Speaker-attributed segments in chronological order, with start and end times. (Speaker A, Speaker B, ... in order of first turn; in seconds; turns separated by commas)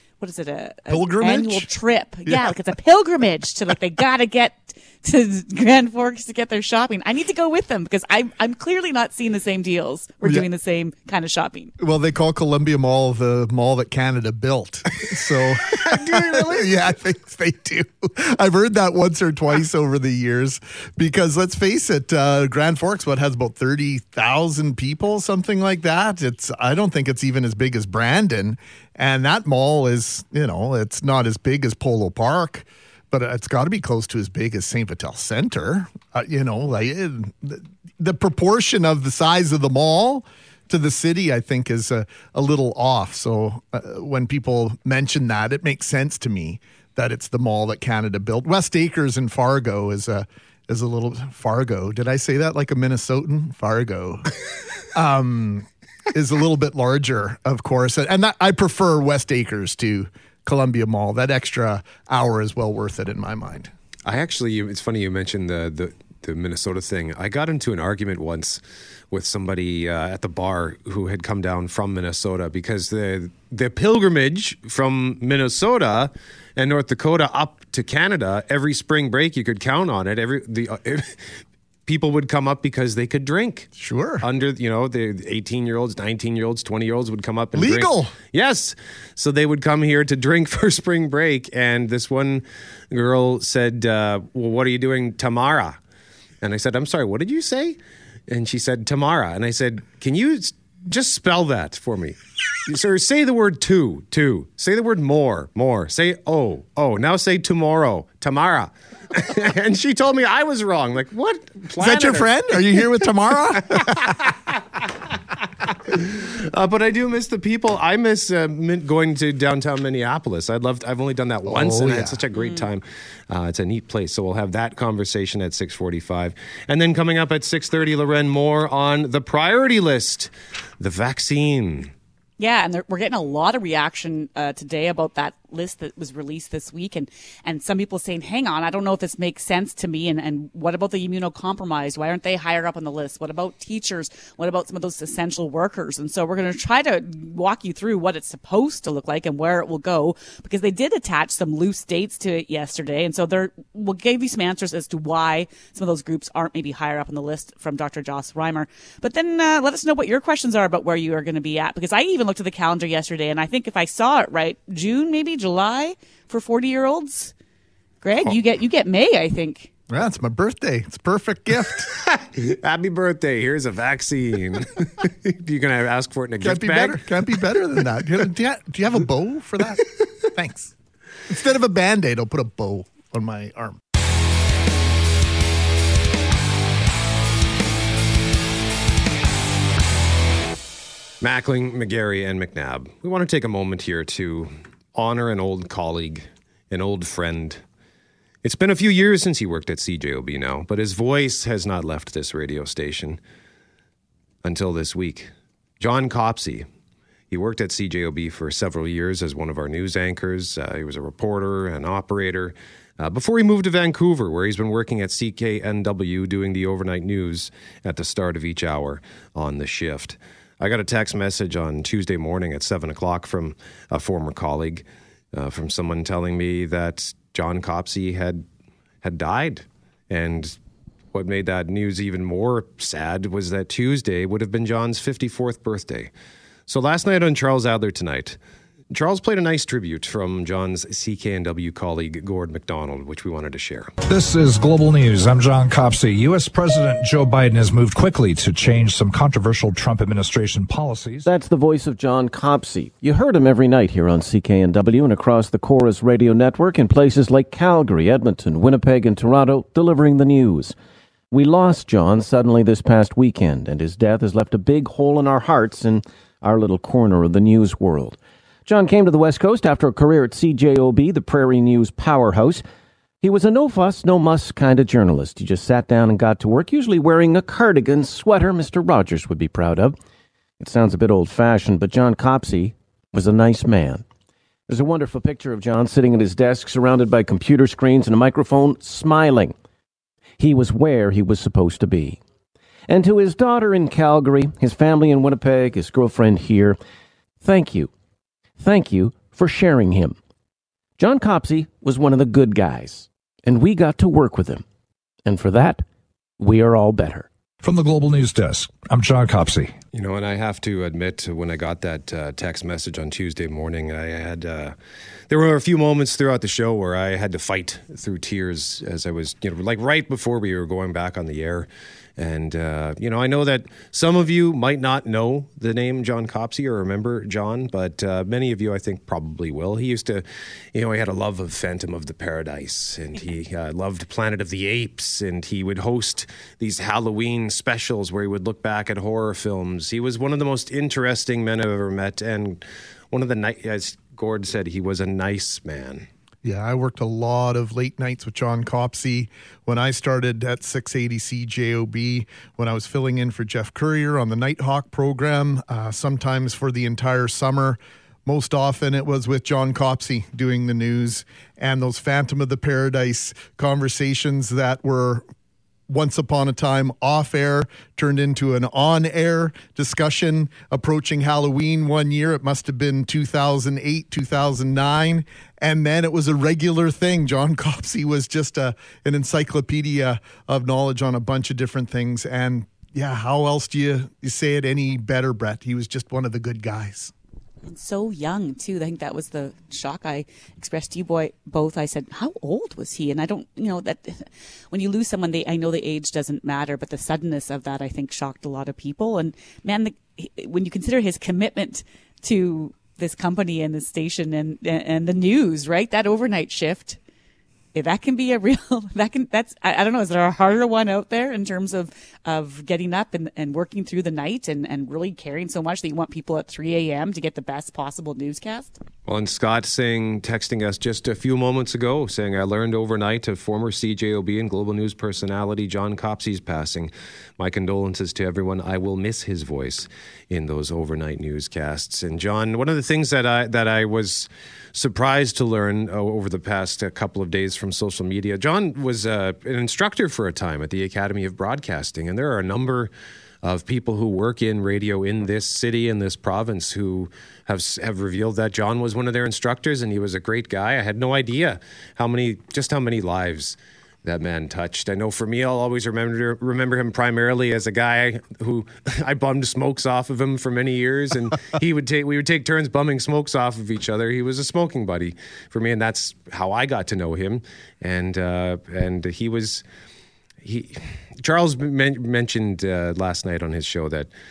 Speaker A: 0.2-11.7, Speaker B: 0.9-1.7, Speaker B: 2.3-2.5, Speaker B: 11.8-54.3, Speaker C: 15.7-16.7, Speaker B: 55.0-63.7, Speaker C: 64.1-68.6, Speaker C: 69.1-81.2, Speaker C: 81.9-83.7, Speaker B: 83.8-84.2, Speaker C: 84.2-95.8, Speaker B: 87.5-88.1, Speaker C: 96.4-113.1, Speaker B: 111.8-114.1, Speaker C: 113.7-114.3, Speaker C: 115.9-131.9, Speaker B: 121.5-122.2, Speaker A: 122.3-122.7, Speaker A: 132.4-167.3, Speaker A: 168.0-169.7, Speaker B: 169.9-171.9, Speaker C: 172.1-177.1, Speaker B: 176.4-180.7, Speaker B: 181.3-183.8, Speaker C: 191.2-197.6, Speaker C: 198.4-203.2, Speaker C: 204.4-206.7, Speaker C: 207.3-228.4, Speaker C: 229.0-230.6, Speaker C: 231.1-236.1, Speaker C: 236.7-238.4, Speaker C: 238.9-243.9, Speaker D: 244.1-251.3, Speaker E: 251.3-260.8, Speaker E: 261.3-272.6, Speaker E: 273.2-280.0, Speaker E: 280.6-284.1, Speaker E: 284.7-289.6, Speaker E: 290.4-292.2, Speaker E: 292.9-296.8, Speaker E: 297.4-297.9, Speaker E: 298.6-300.2, Speaker E: 301.0-304.6, Speaker E: 305.2-305.8, Speaker E: 306.4-307.3, Speaker D: 307.6-309.7, Speaker C: 309.9-314.8, Speaker C: 315.3-346.1, Speaker B: 346.4-365.2, Speaker B: 365.9-387.1, Speaker A: 387.6-407.0, Speaker A: 407.8-418.8, Speaker C: 419.1-442.9, Speaker C: 443.4-469.6, Speaker C: 470.4-474.1